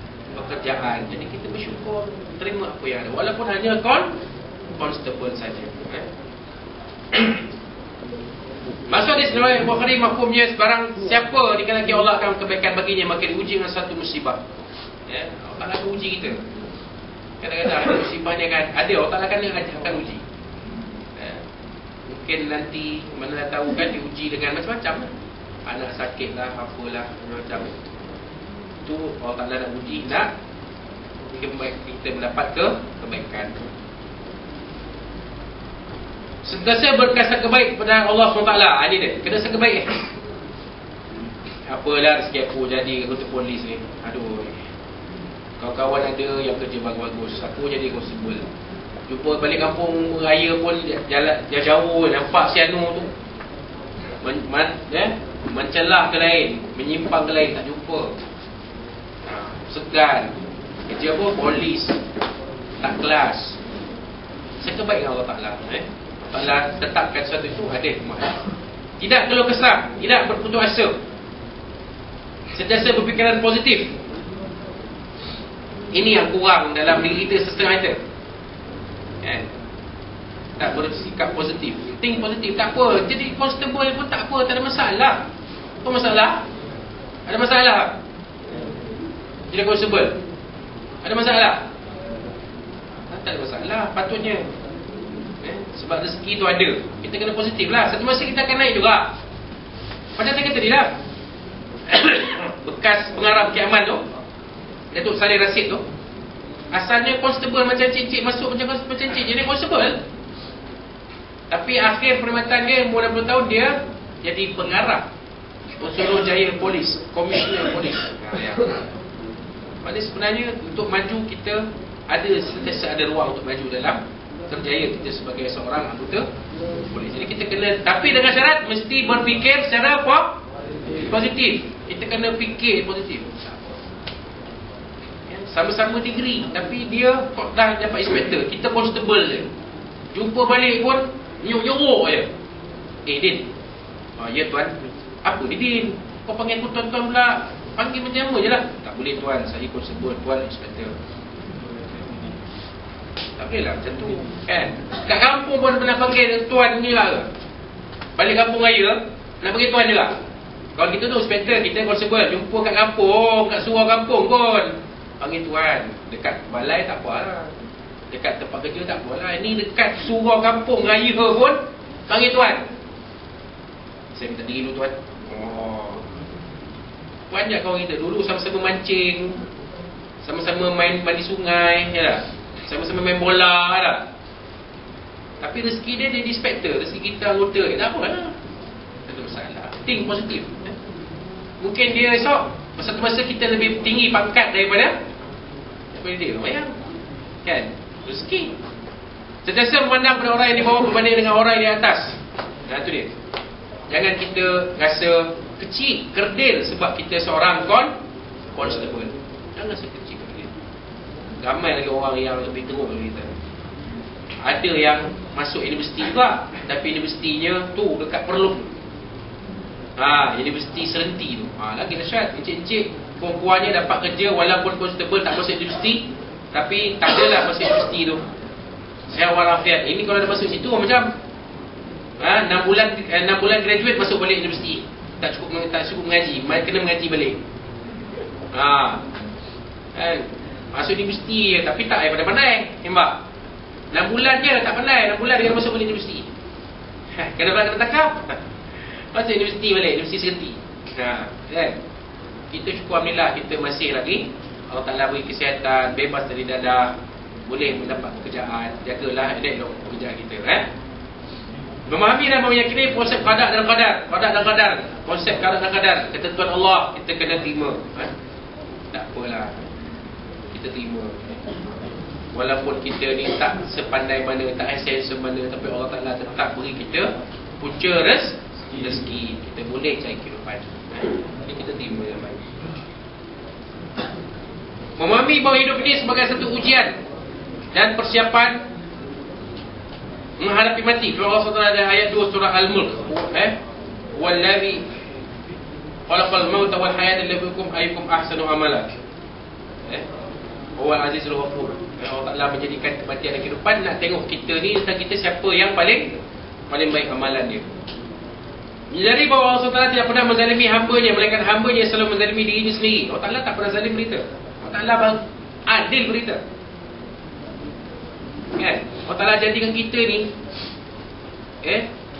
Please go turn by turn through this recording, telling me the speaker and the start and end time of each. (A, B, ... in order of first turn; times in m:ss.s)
0:00.3-0:04.1 A
0:04.8-0:06.1 A
0:08.9-0:14.4 A
0:15.1-0:16.4 A
0:17.4-0:20.2 A
0:21.2-0:21.4 A
0:22.1-0:25.1 A
0:25.7-0:27.8 A
0:28.8-0:30.3 A
0:31.3-0:33.6 A
0:36.4-0:40.0 A
0:41.7-0:44.6 A
0:45.6-0:48.5 A
0:49.1-0:53.1 A
0:54.2-0:58.2 A
0:59.3-1:00.4 A
1:00.9-1:02.0 A
1:02.8-1:03.6 A
1:04.6-1:08.4 A
1:09.0-1:11.0 A
1:12.5-1:14.0 A
1:15.9-1:18.0 A
1:19.2-1:19.5 A
1:20.6-1:25.2 A
1:25.8-1:26.4 A
1:27.3-1:28.0 A
1:29.5-1:30.2 A
1:31.0-1:31.7 A
1:33.1-1:34.5 A
1:35.4-1:39.1 A
1:40.2-1:41.0 A
1:41.9-1:44.1 A
1:44.9-1:45.8 A
1:46.7-1:50.0 A
1:51.5-1:55.1 A
1:55.8-1:58.8 A
1:59.8-2:06.2 A
2:06.9-2:10.4 A
2:10.9-2:13.8 A
2:15.3-2:19.5 A
2:20.1-2:22.3 A
2:23.1-2:23.5 A
2:24.2-2:30.9 A
2:33.4-2:37.3 A
2:38.2-2:40.2 A
2:40.8-2:47.5 A
2:48.1-2:52.7 A
2:54.1-2:56.0 A
2:57.3-2:59.4 A
3:00.2-3:04.1 A
3:05.4-3:08.4 A
3:09.1-3:10.8 A
3:11.6-3:15.0 A
3:15.9-3:16.8 A
3:17.4-3:18.5 A
3:19.4-3:23.1 A
3:23.9-3:27.9 A
3:28.5-3:30.5 A
3:31.4-3:33.3 A
3:34.4-3:38.8 A
3:40.0-3:48.2 A
3:49.1-3:51.1 A
3:52.2-3:57.4 A
3:58.5-3:59.0 A
3:59.9-4:03.2 A
4:03.9-4:06.3 A
4:07.2-4:08.4 A
4:09.1-4:11.8 A
4:12.5-4:16.9 A
4:17.5-4:20.7 A
4:21.9-4:28.1 A
4:28.9-4:29.6 A
4:30.5-4:31.3 A
4:32.3-4:42.4 A
4:45.0-4:47.0 A
4:47.7-4:48.6 A
4:50.4-4:53.6 A
4:54.1-4:54.8 A
4:56.1-4:58.9 A
5:00.8-5:06.2 A
5:06.7-5:07.7 A
5:08.9-5:16.4 A
5:18.6-5:20.3 A
5:21.6-5:21.9 A